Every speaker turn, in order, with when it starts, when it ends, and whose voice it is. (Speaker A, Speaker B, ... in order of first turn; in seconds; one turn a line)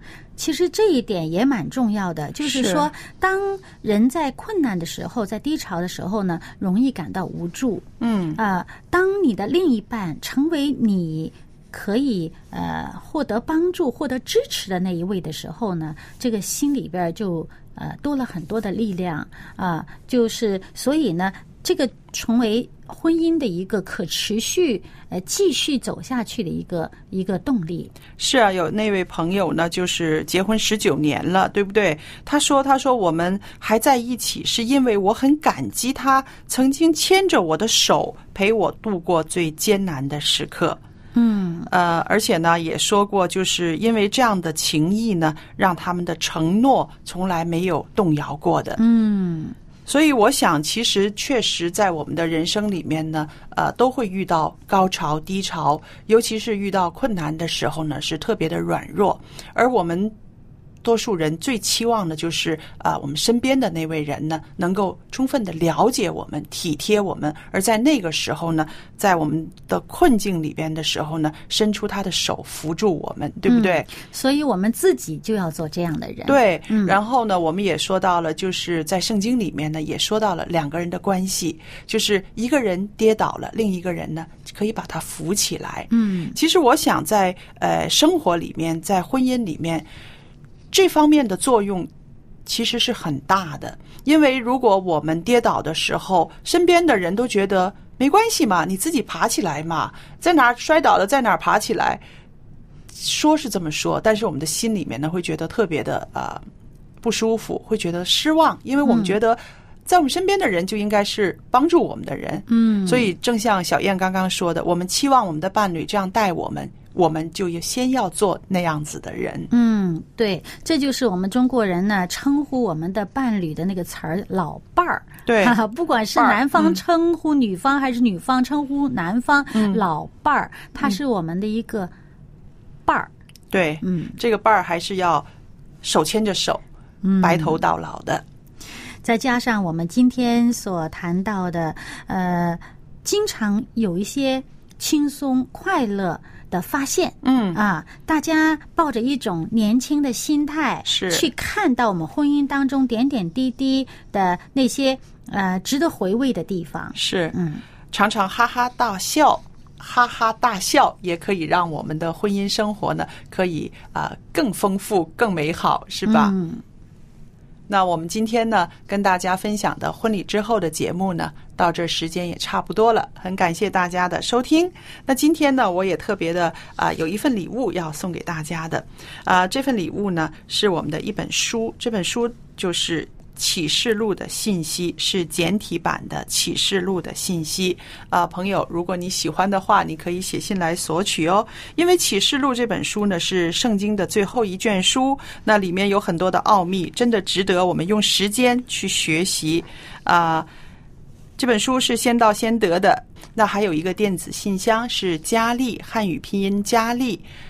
Speaker A: 0.4-27.9
Speaker B: 2.4-2.9
Speaker B: 8.0-8.4
Speaker B: 28.2-40.8
Speaker A: 41.1-41.7
Speaker B: 41.7-48.8
Speaker A: 48.8-49.5
Speaker B: 49.9-60.2
Speaker B: 60.8-73.9
Speaker A: 73.5-77.0
Speaker B: 76.3-89.9
Speaker A: 85.9-86.4
Speaker B: 90.7-91.9
Speaker B: 92.5-102.0
Speaker B: 102.9-106.4
Speaker B: 107.0-119.5
Speaker A: 108.8-109.2
Speaker A: 112.5-113.1
Speaker A: 119.5-131.9
Speaker B: 125.3-125.6
Speaker B: 126.2-126.8
Speaker B: 129.5-129.8
Speaker B: 133.5-135.3
Speaker A: 133.8-134.2
Speaker B: 135.8-136.6
Speaker A: 137.0-137.6
Speaker B: 137.2-138.2
Speaker A: 139.0-157.6
Speaker B: 147.2-147.6
Speaker B: 150.9-151.3
Speaker B: 157.0-157.3
Speaker B: 157.9-166.3
Speaker A: 166.1-166.6
Speaker B: 167.7-200.5
Speaker B: 201.4-207.2